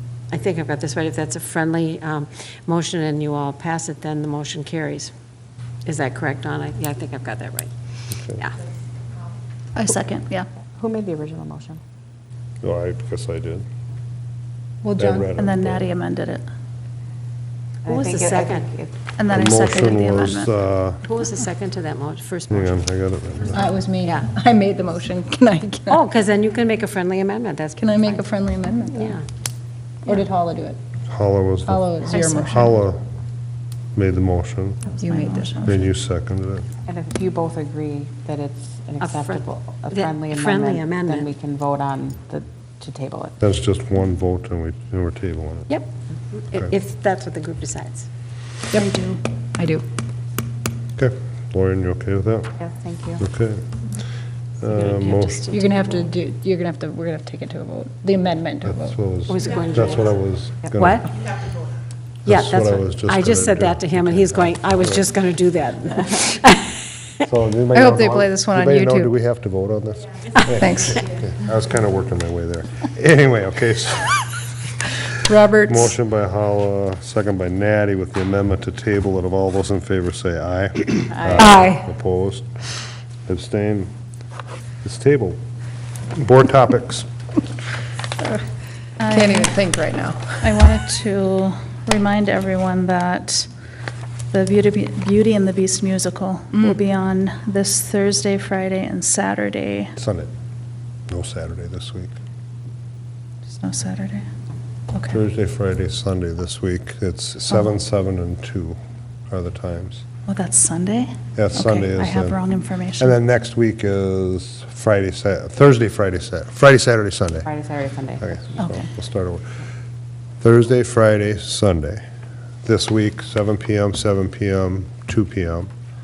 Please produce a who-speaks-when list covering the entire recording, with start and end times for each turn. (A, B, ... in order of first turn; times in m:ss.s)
0:00.3-0:05.1 A
0:05.8-0:07.7 A
0:09.7-0:10.5 B
0:10.8-0:11.8 C
0:12.6-0:13.6 D
0:14.8-0:15.3 E
0:15.0-0:15.9 D
0:15.4-0:16.4 B
0:17.8-0:18.9 C
0:17.8-0:18.7 A
0:19.2-0:20.5 B
0:19.3-0:21.0 D
0:21.0-0:22.8 A
0:22.5-0:23.6 D
0:23.5-0:26.0 E
0:24.0-0:24.3 A
0:25.9-0:28.3 A
0:27.8-0:29.2 E
0:28.9-0:29.2 A
0:30.0-0:30.8 E
0:31.1-0:33.0 D
0:31.7-0:32.8 E
0:33.9-0:34.9 D
0:35.0-0:35.6 E
0:35.0-0:35.7 B
0:35.6-0:36.7 D
0:36.9-0:43.4 C
0:39.0-0:41.3 A
0:43.4-0:45.7 D
0:45.7-0:48.1 A
0:48.7-0:49.2 B
0:49.6-0:49.8 E
0:51.0-0:52.5 D
0:52.6-0:53.2 C
0:53.2-0:53.6 D
0:54.6-0:55.5 D
0:54.7-0:56.0 A
0:55.5-0:58.9 E
0:58.6-1:01.1 D
0:59.3-1:00.2 A
1:00.7-1:01.1 A
1:02.2-1:05.0 D
1:02.2-1:06.7 A
1:07.2-1:14.4 D
1:07.7-1:09.1 E
1:10.4-1:11.0 E
1:15.2-1:15.9 E
1:15.6-1:22.7 D
1:21.1-1:21.6 C
1:21.4-1:21.8 E
1:23.2-1:23.9 D
1:24.8-1:25.4 D
1:26.2-1:27.0 D
1:29.0-1:29.6 B
1:29.0-1:30.7 E
1:30.4-1:33.5 B
1:34.3-1:39.9 B
1:40.0-1:40.3 D
1:41.1-1:42.1 D
1:43.6-1:44.2 B
1:45.1-1:48.8 D
1:49.3-1:50.0 D
1:50.3-1:53.1 B
1:51.3-1:52.4 D
1:53.0-1:57.5 D
1:57.4-1:58.6 C
1:58.2-1:59.4 D
1:58.6-1:58.9 B
2:00.4-2:02.0 D
2:02.6-2:05.7 D